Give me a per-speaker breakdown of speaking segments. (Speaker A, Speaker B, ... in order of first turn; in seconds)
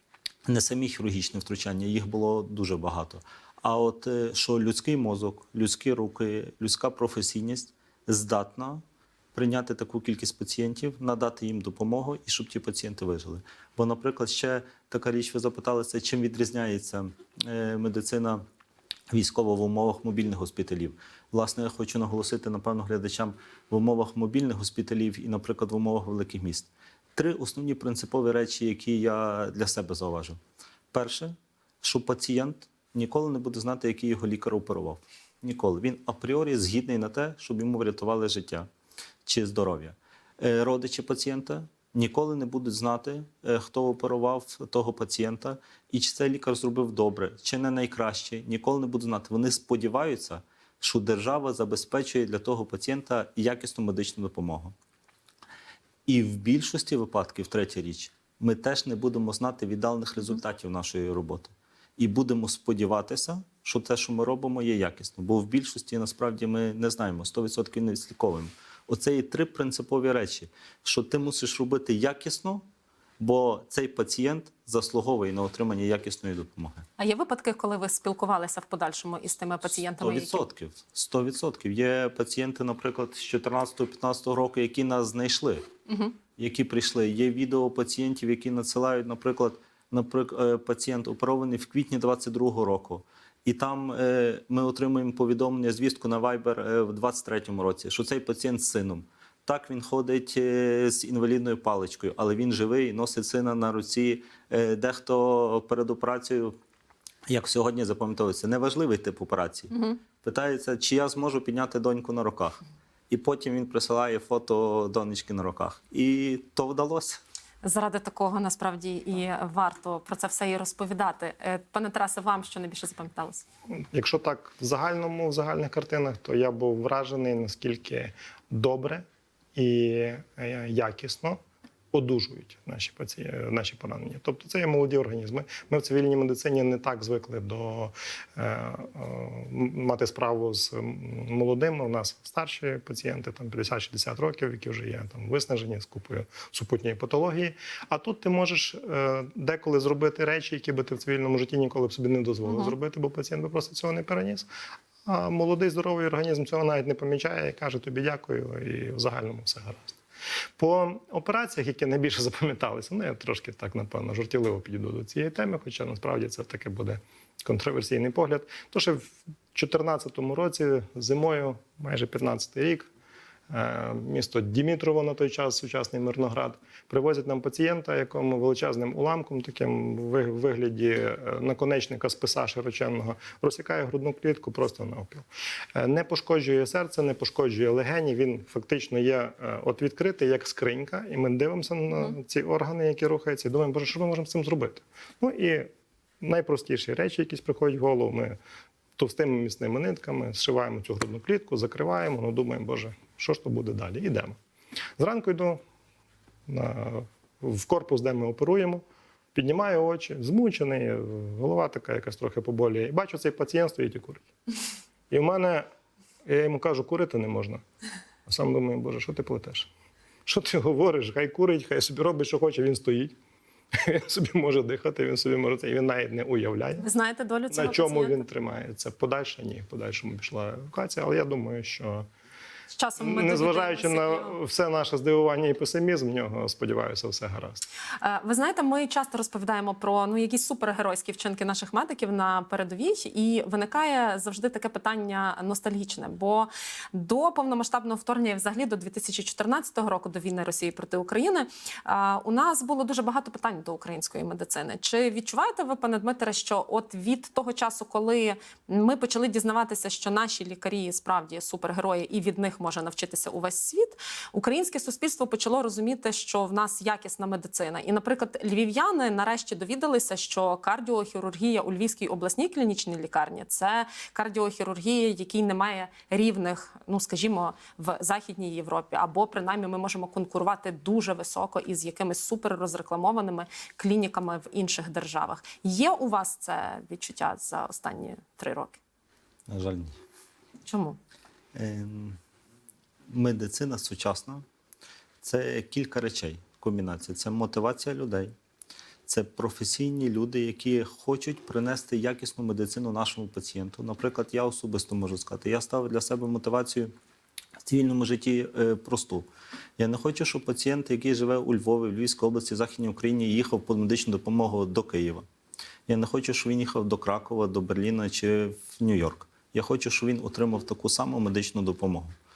Speaker A: 0.5-8.8, 9.3-18.4, 19.1-30.4, 30.9-38.7, 39.2-54.7, 56.1-72.6, 73.2-76.8, 79.7-85.6, 86.4-106.5, 107.3-112.6, 113.1-117.2, 289.5-289.9, 291.5-292.2, 293.1-294.4, 295.2-298.3, 299.1-306.9, 307.6-309.3, 309.8-315.2, 315.9-322.1
Speaker B: 77.0-80.5, 85.9-86.1, 109.7-110.0, 117.6-123.5, 226.8-228.2, 232.7-234.3, 238.0-288.8, 290.6-291.0
Speaker C: 123.9-129.0, 129.5-131.4, 131.9-154.5, 155.0-160.0, 160.6-172.9, 173.5-195.7, 196.2-198.4, 199.0-204.4, 205.0-205.6, 206.5-208.8, 209.3-214.3, 215.1-215.6, 216.2-217.6, 218.2-219.7, 220.2-223.1, 223.7-226.9, 227.5-232.1, 233.0-237.6